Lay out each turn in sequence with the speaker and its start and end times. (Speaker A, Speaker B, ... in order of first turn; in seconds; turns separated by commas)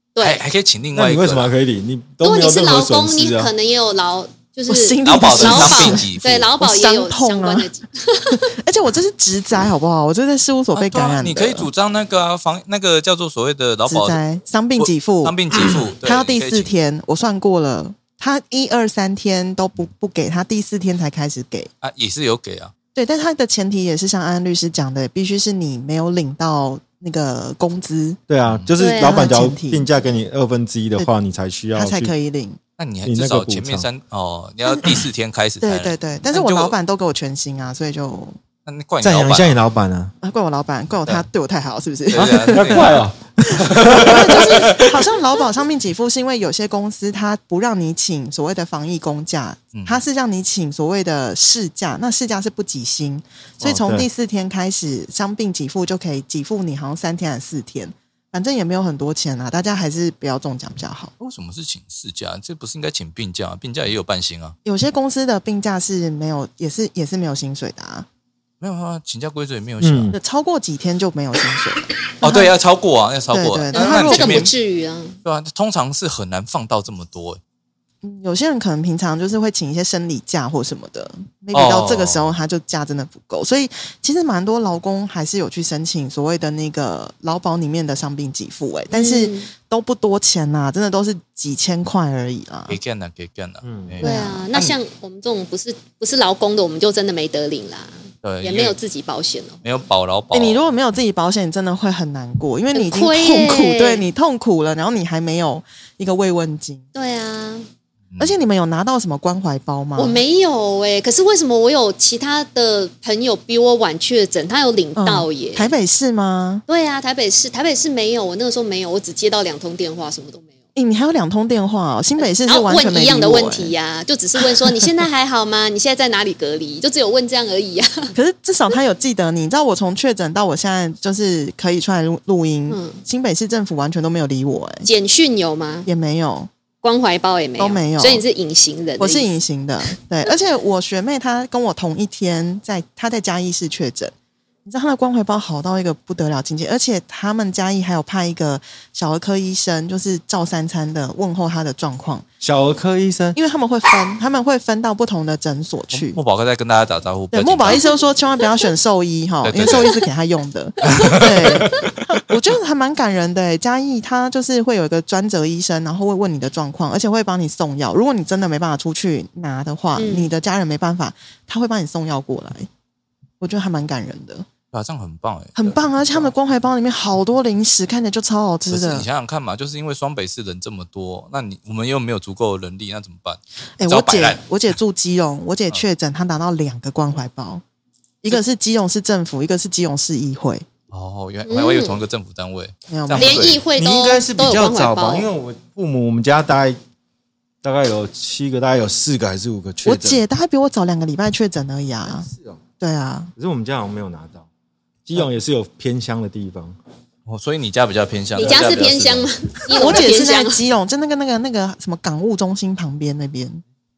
Speaker A: 0.1-0.4, Speaker B: 0.2-1.5, Speaker C: 0.9-3.5, Speaker A: 2.2-8.5, Speaker D: 4.7-7.7, Speaker B: 5.0-6.5, Speaker D: 8.4-11.7, Speaker B: 10.7-14.2, Speaker D: 13.9-21.7, Speaker B: 14.8-16.7, Speaker B: 21.8-22.7, Speaker D: 22.9-28.2, Speaker C: 28.3-32.1, Speaker B: 28.5-28.7, Speaker A: 28.8-29.3, Speaker D: 28.8-29.9, Speaker D: 31.8-32.6, Speaker B: 32.8-36.8, Speaker C: 33.0-33.9, Speaker D: 35.6-38.4, Speaker B: 38.6-39.6, Speaker C: 39.0-40.1, Speaker D: 40.2-43.0, Speaker B: 42.1-43.0, Speaker C: 42.2-45.0, Speaker D: 43.6-61.1, Speaker B: 43.8-44.7, Speaker B: 49.7-50.0, Speaker C: 53.6-54.1, Speaker B: 61.2-64.5, Speaker D: 64.6-68.1, Speaker B: 68.6-70.1, Speaker C: 69.8-70.2, Speaker D: 70.1-72.5, Speaker B: 72.2-74.5, Speaker D: 73.3-74.5, Speaker A: 73.7-75.2, Speaker B: 75.2-77.4, Speaker D: 78.0-92.8, Speaker B: 81.5-82.3, Speaker A: 88.9-89.5, Speaker B: 92.7-94.8, Speaker C: 93.6-94.0, Speaker A: 94.0-99.6, Speaker D: 94.0-94.5, Speaker B: 98.2-98.8, Speaker B: 99.6-100.7, Speaker D: 100.3-106.8, Speaker A: 102.7-104.0, Speaker A: 107.0-107.7, Speaker B: 108.1-108.4, Speaker D: 108.2-110.2, Speaker A: 110.0-115.7, Speaker D: 115.0-116.6, Speaker A: 116.7-120.5, Speaker D: 120.8-123.7, Speaker A: 122.2-128.1, Speaker D: 128.1-134.9, Speaker A: 132.7-133.0, Speaker A: 134.8-135.9, Speaker D: 135.9-136.5, Speaker A: 136.8-139.3, Speaker D: 137.6-138.2, Speaker D: 139.0-144.1, Speaker D: 144.6-152.2, Speaker C: 152.4-153.4, Speaker D: 153.3-156.2, Speaker B: 155.9-157.9, Speaker D: 157.3-172.7, Speaker B: 159.4-160.1, Speaker B: 161.0-161.7, Speaker A: 170.0-170.3, Speaker D: 173.4-174.5, Speaker B: 174.7-176.3, Speaker D: 175.6-179.1, Speaker B: 178.7-184.5, Speaker D: 183.8-187.6, Speaker D: 188.2-190.6, Speaker B: 190.9-193.6, Speaker A: 191.5-192.0, Speaker D: 192.9-193.6, Speaker A: 193.2-195.3, Speaker C: 193.8-196.8, Speaker C: 197.6-200.2, Speaker D: 199.8-202.3, Speaker C: 202.1-202.6, Speaker D: 202.8-203.3, Speaker C: 203.4-204.5, Speaker C: 205.1-206.8, Speaker B: 207.2-209.3, Speaker A: 208.4-210.6, Speaker D: 209.7-213.6